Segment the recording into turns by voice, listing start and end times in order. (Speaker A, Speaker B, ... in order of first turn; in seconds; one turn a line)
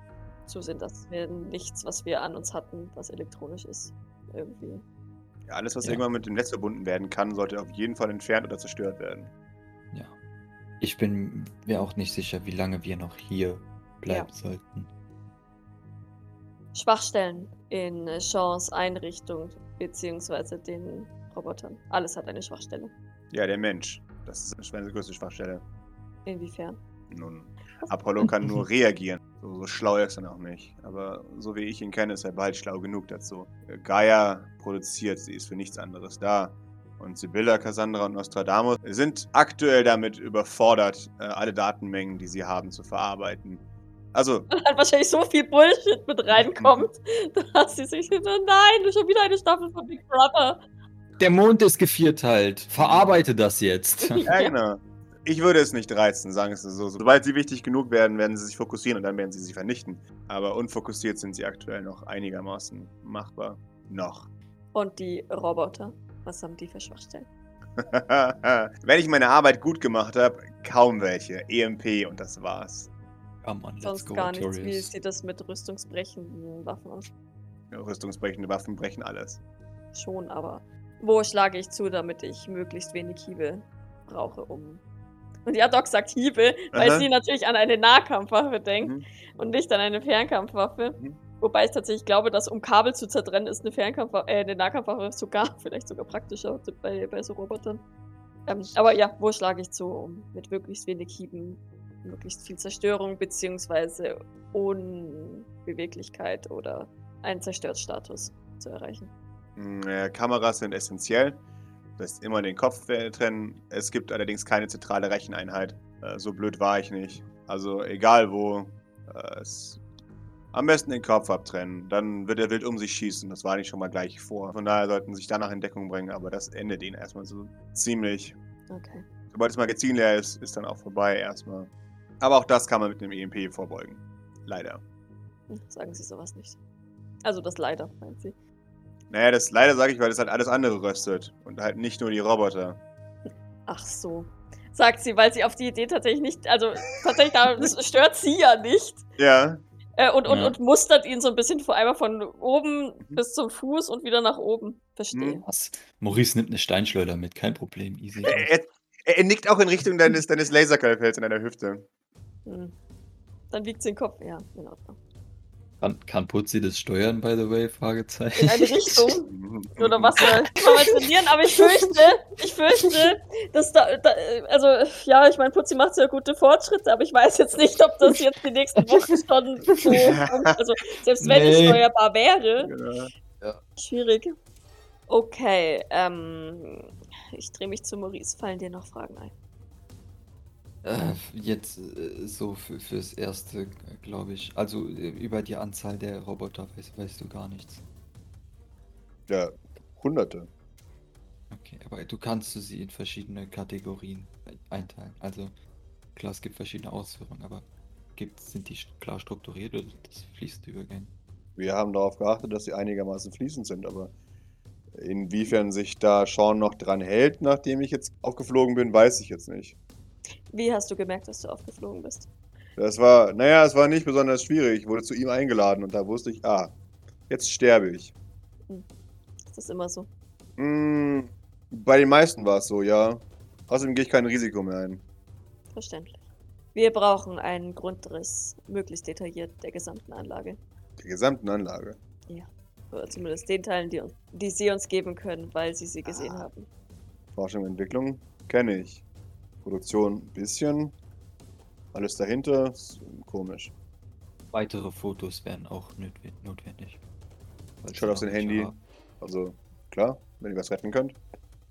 Speaker A: 0.5-4.8
Speaker B: 5.5-9.3
Speaker C: 10.8-14.9
Speaker A: 16.7-22.9
Speaker B: 23.3-25.6
Speaker A: 26.3-26.8
Speaker B: 27.1-44.5
Speaker A: 44.5-50.6
Speaker B: 46.3-46.9
Speaker C: 51.2-54.2
Speaker B: 52.8-53.1
Speaker A: 54.0-54.5
Speaker B: 54.3-64.3
Speaker A: 64.7-67.3
Speaker B: 67.8-72.9
Speaker C: 73.4-74.9
Speaker A: 73.8-77.1
Speaker B: 77.7-79.4
Speaker A: 79.9-84.8
Speaker A: 85.5-97.8
Speaker B: 86.7-87.1
Speaker A: 98.5-109.1
Speaker B: 109.6-111.4
Speaker B: 112.0-119.8
Speaker B: 120.5-128.3
Speaker A: 128.7-129.0
Speaker B: 129.3-131.7
Speaker B: 132.2-134.8
Speaker A: 135.5-136.6
Speaker A: 137.2-138.3
Speaker B: 139.1-142.8
Speaker A: 143.7-149.1
Speaker B: 149.2-149.6
Speaker A: 150.0-155.5
Speaker C: 150.3-150.6
Speaker B: 155.1-155.4
Speaker C: 155.5-158.4
Speaker B: 158.2-161.9
Speaker A: 162.5-162.8
Speaker A: 163.5-165.0
Speaker C: 165.8-169.1
Speaker A: 168.4-182.7
Speaker B: 169.3-170.3
Speaker C: 170.2-170.7
Speaker C: 179.7-180.1
Speaker B: 179.9-180.5
Speaker C: 181.2-181.8
Speaker B: 182.6-183.1
Speaker A: 183.8-184.3
Speaker A: 185.1-189.3
Speaker C: 190.8-197.8
Speaker B: 199.3-200.5
Speaker C: 201.5-205.5
Speaker C: 206.2-211.1
Speaker B: 211.6-214.1
Speaker B: 214.9-219.8
Speaker A: 220.5-222.3
Speaker B: 222.8-226.7
Speaker B: 227.3-228.1
Speaker A: 229.5-230.1
Speaker B: 230.6-235.0
Speaker A: 235.7-236.2
Speaker A: 236.7-240.6
Speaker B: 241.0-242.0
Speaker A: 242.3-246.7
Speaker B: 246.1-246.5
Speaker B: 247.3-249.0
Speaker B: 249.6-250.9
Speaker B: 251.9-253.7
Speaker C: 254.5-257.0
Speaker C: 257.8-258.8
Speaker B: 257.9-261.2